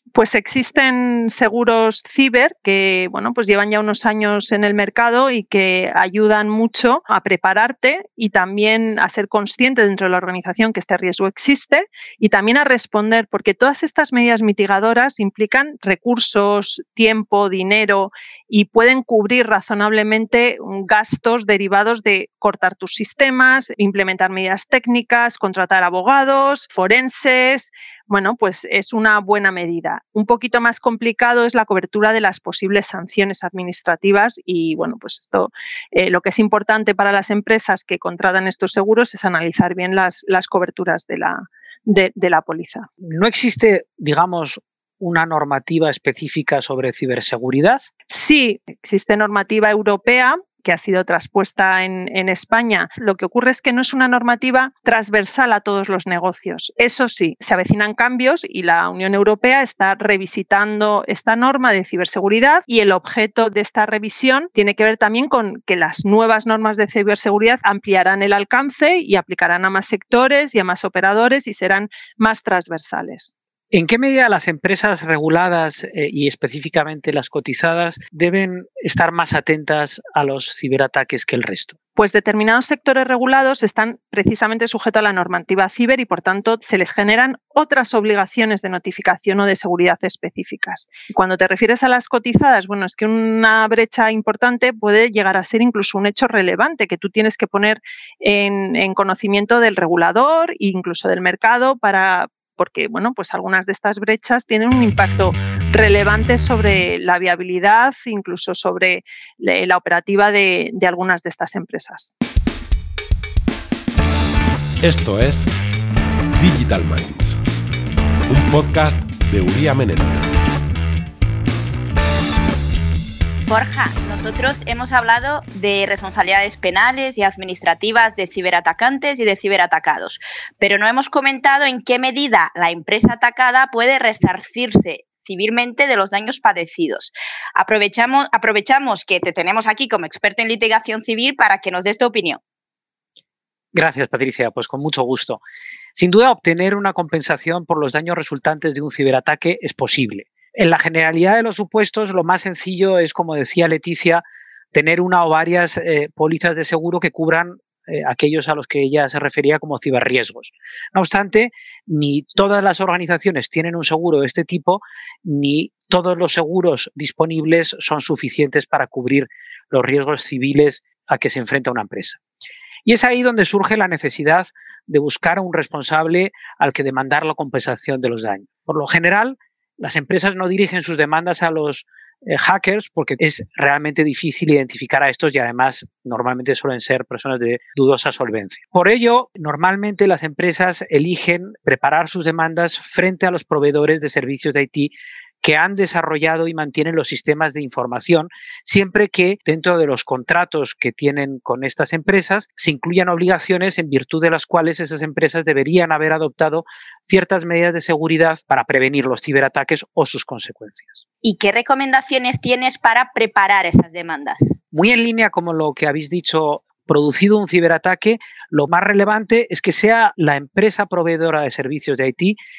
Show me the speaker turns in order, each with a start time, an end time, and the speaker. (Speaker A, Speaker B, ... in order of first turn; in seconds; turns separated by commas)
Speaker A: 0.1-42.9, Speaker B: 43.0-47.9, Speaker A: 48.1-73.3, Speaker B: 73.7-81.8, Speaker A: 82.0-112.1, Speaker C: 114.8-115.5, Speaker C: 116.4-117.4, Speaker C: 118.3-120.3, Speaker D: 123.5-142.4, Speaker B: 143.7-145.4, Speaker B: 145.9-154.2, Speaker B: 154.7-172.2, Speaker B: 172.9-211.0, Speaker D: 211.2-214.5, Speaker B: 214.7-222.4